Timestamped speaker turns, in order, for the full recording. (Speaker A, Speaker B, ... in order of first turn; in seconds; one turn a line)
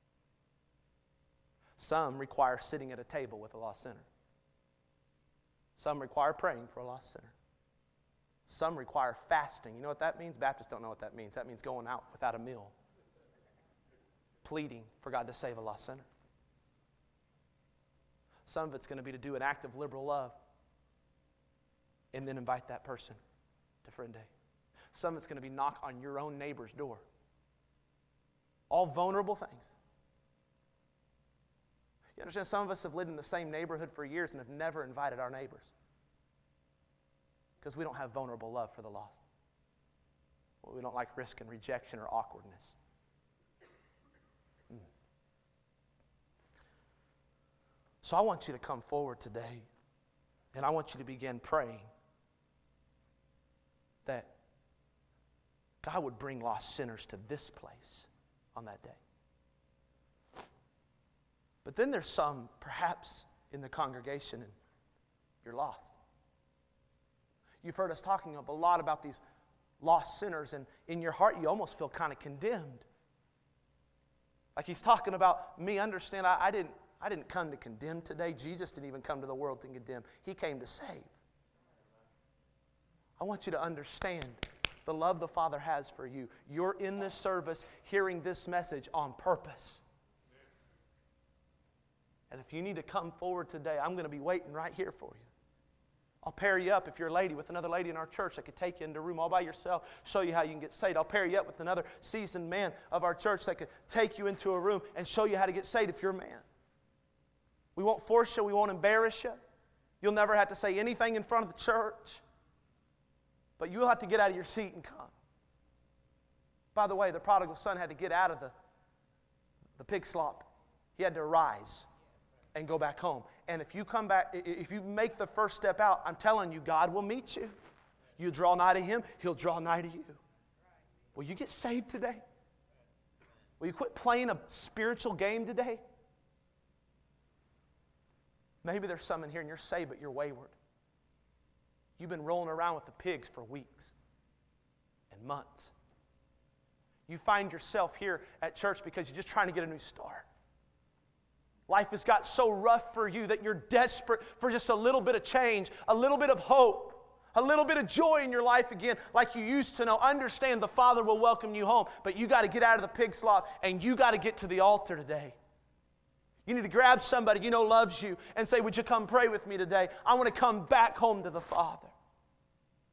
Speaker A: 1.8-4.1
Speaker A: 5.8-7.3
Speaker A: 8.5-12.7
Speaker A: 14.4-16.1
Speaker A: 18.4-20.3
Speaker A: 22.1-23.2
Speaker A: 23.8-24.3
Speaker A: 24.9-27.0
Speaker A: 28.7-29.7
Speaker A: 32.2-35.7
Speaker A: 37.6-39.2
Speaker A: 40.6-42.8
Speaker A: 48.0-49.7
Speaker A: 50.5-51.9
Speaker A: 54.0-54.3
Speaker A: 55.8-59.0
Speaker A: 61.6-64.5
Speaker A: 65.4-66.0
Speaker A: 67.6-69.2
Speaker A: 69.8-72.8
Speaker A: 74.5-81.1
Speaker A: 83.2-89.8
Speaker A: 92.3-95.3
Speaker A: 96.2-106.4
Speaker A: 107.8-109.4
Speaker A: 110.0-112.2
Speaker A: 113.6-115.1
Speaker A: 116.7-118.5
Speaker A: 119.8-121.9
Speaker A: 122.5-127.5
Speaker A: 128.2-130.2
Speaker A: 131.1-132.2
Speaker A: 133.6-135.8
Speaker A: 138.6-140.5
Speaker A: 142.0-143.9
Speaker A: 145.1-145.7
Speaker A: 147.1-150.3
Speaker A: 151.7-165.3
Speaker A: 166.4-171.9